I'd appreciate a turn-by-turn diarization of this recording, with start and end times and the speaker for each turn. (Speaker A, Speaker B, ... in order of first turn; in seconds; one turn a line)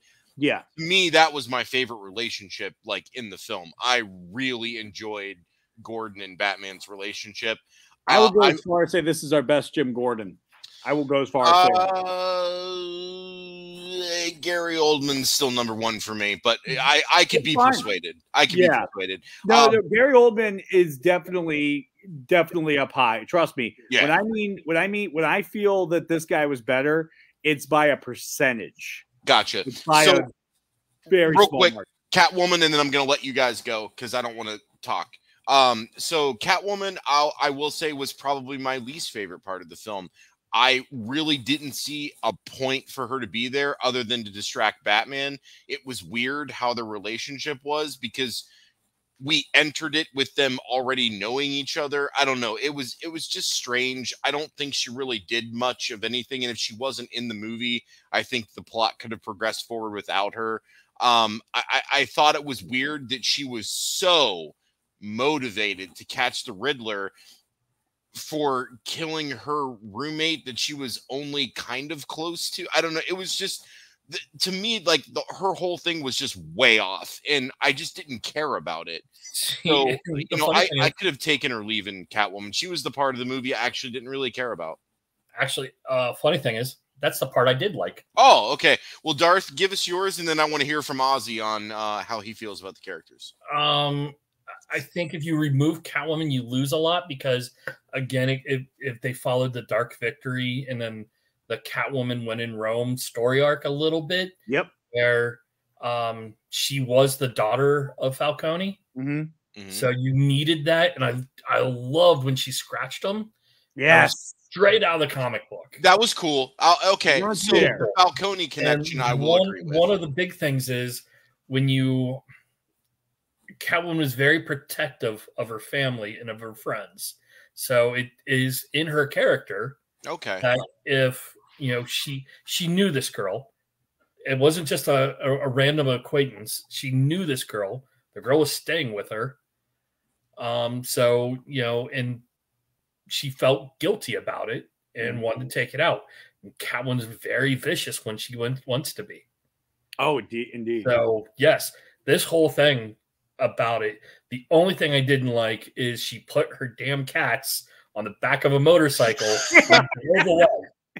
Speaker A: 0.4-0.7
Speaker B: 0.8-8.6
Speaker A: 8.1-11.9
Speaker B: 11.4-19.8
Speaker A: 17.3-17.9
Speaker A: 18.5-18.9
Speaker A: 19.4-29.1
Speaker B: 29.2-30.3
Speaker A: 29.7-30.3
Speaker A: 31.1-31.9
Speaker B: 31.3-48.5
Speaker B: 49.2-67.1
Speaker B: 68.1-79.1
Speaker C: 79.3-80.9
Speaker B: 79.6-84.8
Speaker C: 85.3-88.0
Speaker B: 88.2-93.3
Speaker C: 93.5-94.2
Speaker C: 94.7-104.4
Speaker C: 104.9-108.8
Speaker A: 108.9-109.3
Speaker B: 109.5-109.9
Speaker C: 109.7-113.3
Speaker A: 113.8-114.3
Speaker C: 113.9-115.8
Speaker B: 115.8-119.9
Speaker A: 117.1-117.8
Speaker C: 117.5-118.0
Speaker C: 118.6-122.2
Speaker C: 123.5-129.8
Speaker B: 130.0-130.5
Speaker C: 130.4-133.5
Speaker C: 134.2-139.4
Speaker C: 140.4-142.2
Speaker C: 143.1-149.2
Speaker A: 150.0-151.0
Speaker C: 150.8-160.7
Speaker A: 159.4-159.9